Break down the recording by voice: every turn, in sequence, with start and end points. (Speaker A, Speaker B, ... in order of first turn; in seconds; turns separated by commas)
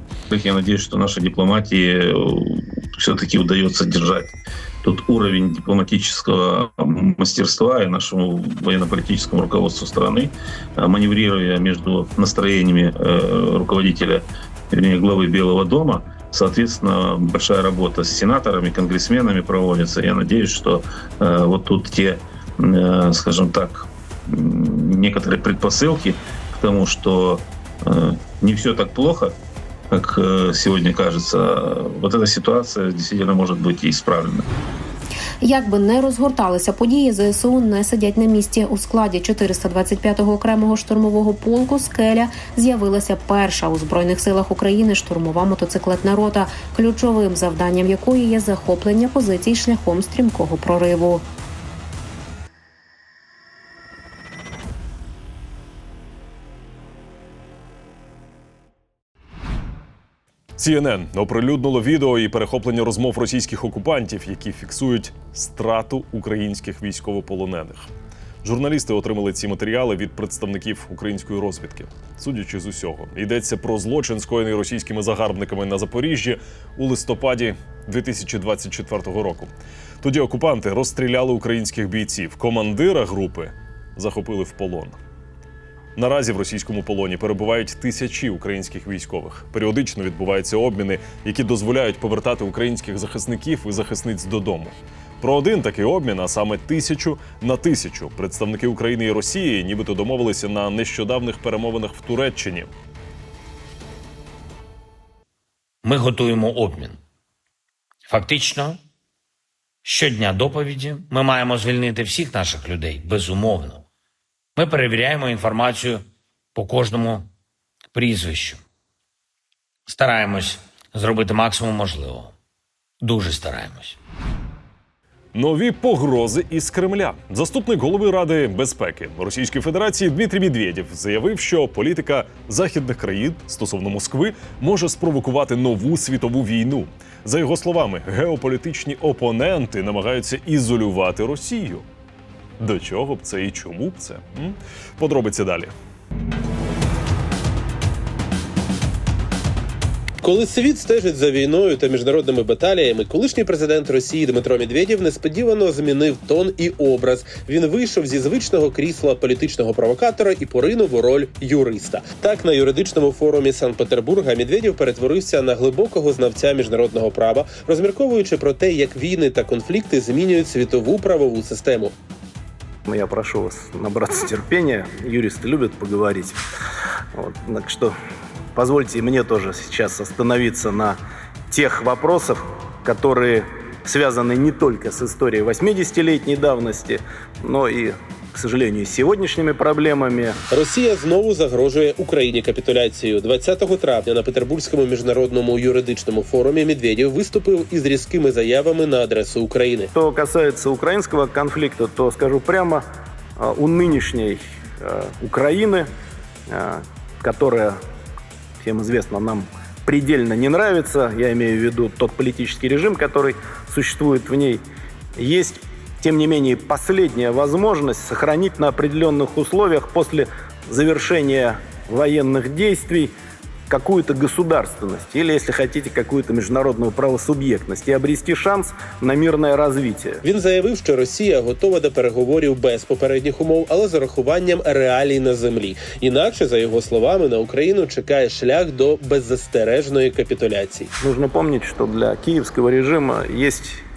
Speaker A: 0.3-29.3, Speaker A: 29.9-34.5, Speaker B: 35.4-51.2, Speaker C: 60.6-67.9, Speaker C: 68.4-85.0, Speaker C: 86.0-102.7, Speaker D: 105.8-107.0, Speaker D: 108.1-108.8, Speaker D: 109.8-113.8, Speaker D: 114.5-117.3, Speaker D: 117.9-118.6, Speaker D: 119.9-122.3, Speaker D: 123.0-124.0, Speaker C: 125.3-141.8, Speaker C: 142.6-145.7, Speaker E: 150.2-171.9, Speaker F: 172.9-176.4, Speaker F: 177.1-177.9, Speaker F: 178.5-181.0, Speaker F: 181.5-190.3, Speaker E: 190.5-199.9, Speaker F: 199.9-202.8, Speaker F: 203.4-205.9, Speaker F: 206.5-207.7, Speaker F: 208.6-214.6, Speaker F: 215.2-223.1, Speaker F: 223.7-230.2, Speaker E: 230.2-240.9, Speaker F: 241.0-243.8